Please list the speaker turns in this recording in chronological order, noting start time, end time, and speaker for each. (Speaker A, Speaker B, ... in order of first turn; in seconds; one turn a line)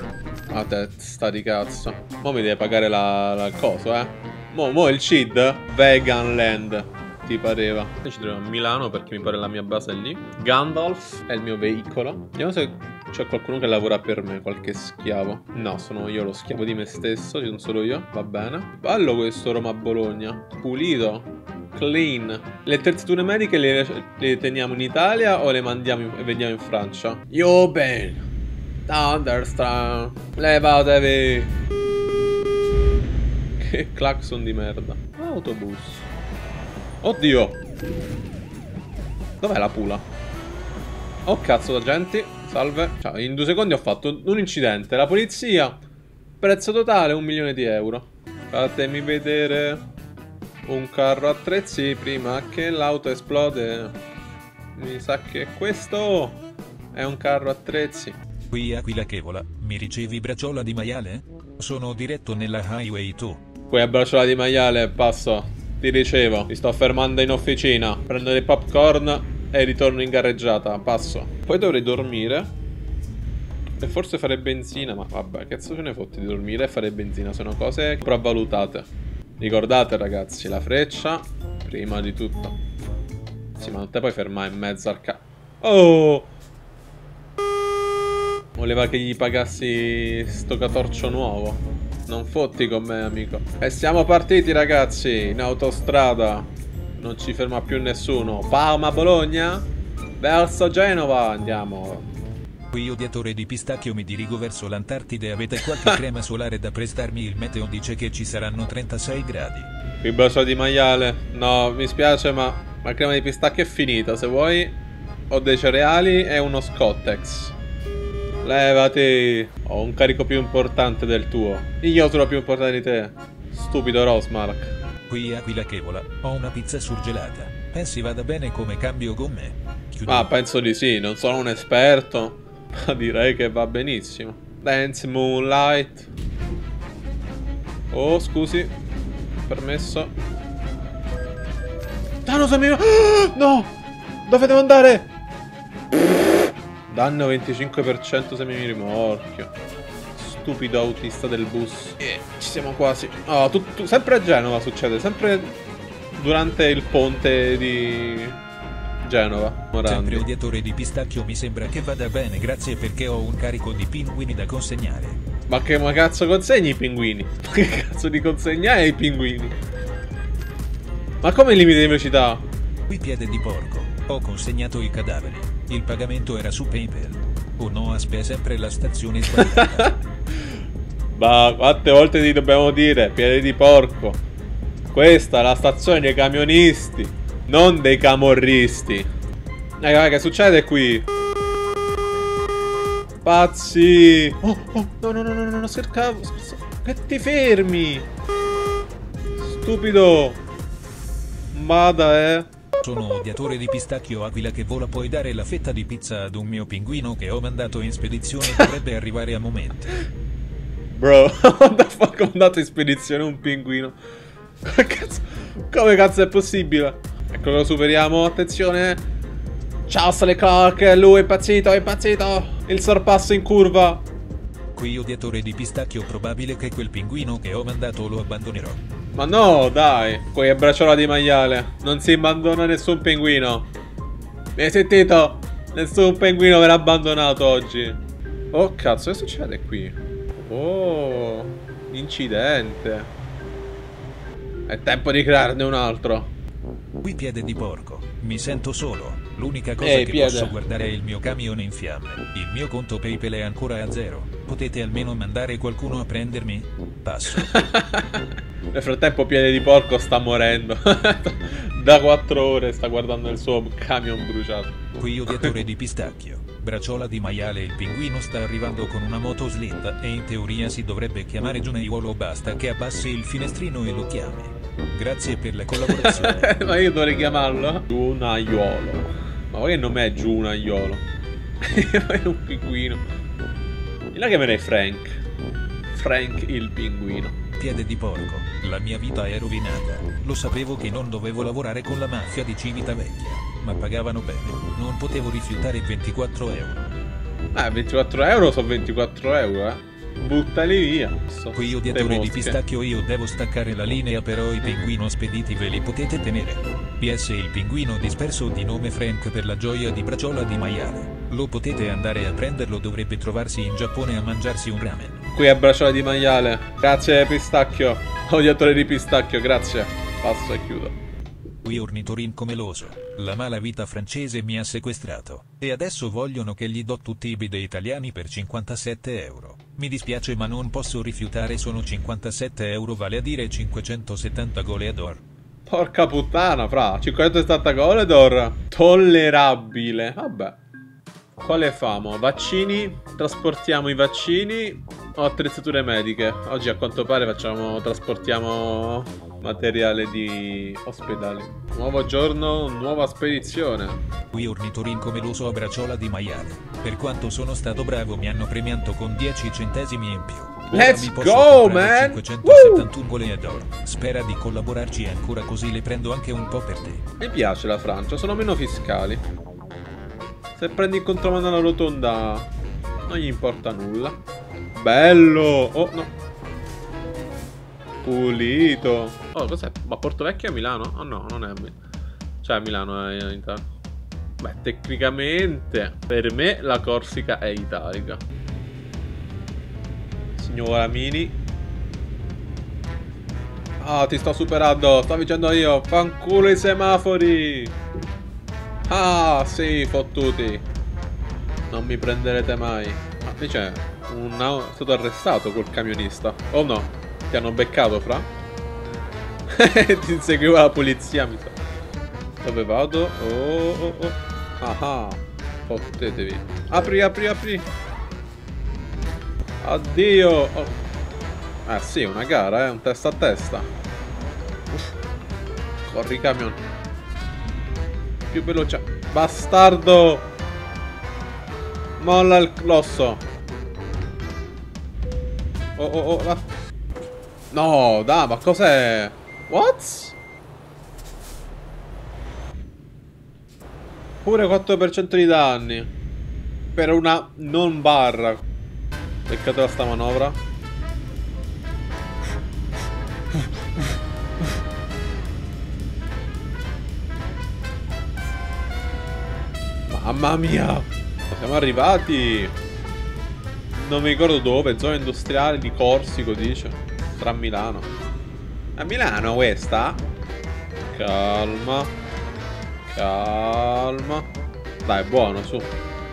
Speaker A: 0.5-28.2
Speaker A: 28.9-31.5
Speaker A: 33.6-36.1
Speaker A: 37.0-37.6
Speaker A: 39.4-40.1
Speaker A: 41.3-45.8
Speaker A: 46.4-49.9
Speaker A: 50.7-54.0
Speaker A: 54.8-56.4
Speaker A: 56.9-58.2
Speaker B: 58.5-63.4
Speaker A: 63.7-72.5
Speaker A: 73.8-82.6
Speaker A: 83.6-86.3
Speaker A: 88.6-102.1
Speaker B: 102.7-109.7
Speaker A: 105.6-106.0
Speaker A: 110.0-117.5
Speaker A: 118.4-124.8
Speaker B: 125.1-130.3
Speaker A: 130.1-136.1
Speaker A: 137.9-138.7
Speaker A: 139.5-140.1
Speaker A: 142.3-143.7
Speaker A: 144.3-145.1
Speaker A: 146.9-149.5
Speaker A: 150.2-155.6
Speaker A: 156.2-158.4
Speaker A: 159.0-160.3
Speaker B: 159.8-165.2
Speaker A: 165.5-169.6
Speaker A: 171.2-172.5
Speaker B: 172.9-179.9
Speaker A: 179.3-180.0
Speaker A: 181.1-184.2
Speaker A: 184.9-189.1
Speaker A: 189.8-191.1
Speaker A: 193.2-198.1
Speaker A: 199.4-200.4
Speaker A: 201.5-202.5
Speaker B: 202.8-210.0
Speaker A: 208.4-208.7
Speaker A: 210.9-214.0
Speaker A: 214.6-219.0
Speaker A: 219.9-224.1
Speaker B: 224.7-228.8
Speaker A: 229.1-233.7
Speaker A: 234.6-238.0
Speaker A: 238.5-243.1
Speaker A: 244.7-246.3
Speaker B: 247.0-257.5
Speaker A: 249.8-250.6
Speaker A: 257.3-264.8
Speaker B: 265.0-276.5
Speaker A: 265.3-265.6
Speaker A: 275.8-281.1
Speaker A: 281.6-283.0
Speaker A: 284.1-285.2
Speaker A: 285.9-287.4
Speaker B: 287.6-296.9
Speaker A: 297.5-302.6
Speaker B: 301.5-315.2
Speaker A: 315.3-321.0
Speaker B: 321.6-335.2
Speaker A: 335.7-340.6
Speaker A: 341.4-354.0
Speaker B: 354.3-367.0
Speaker A: 360.7-362.9
Speaker A: 367.2-369.2
Speaker A: 370.6-372.5
Speaker A: 373.1-374.2
Speaker A: 374.7-376.1
Speaker A: 378.0-381.8
Speaker A: 382.4-383.7
Speaker A: 384.4-388.2
Speaker A: 390.4-391.4
Speaker A: 393.8-397.8
Speaker A: 398.9-400.7
Speaker A: 401.7-408.3
Speaker A: 409.5-411.6
Speaker A: 412.4-417.7
Speaker A: 419.6-420.8
Speaker A: 421.7-423.7
Speaker A: 425.9-426.6
Speaker A: 428.3-430.3
Speaker A: 432.0-433.2
Speaker A: 435.8-436.5
Speaker A: 437.5-440.2
Speaker A: 444.2-445.9
Speaker A: 446.8-448.5
Speaker A: 449.3-450.4
Speaker A: 459.9-462.6
Speaker A: 463.8-467.9
Speaker A: 468.8-470.0
Speaker A: 470.9-472.0
Speaker A: 472.9-474.3
Speaker A: 474.9-475.8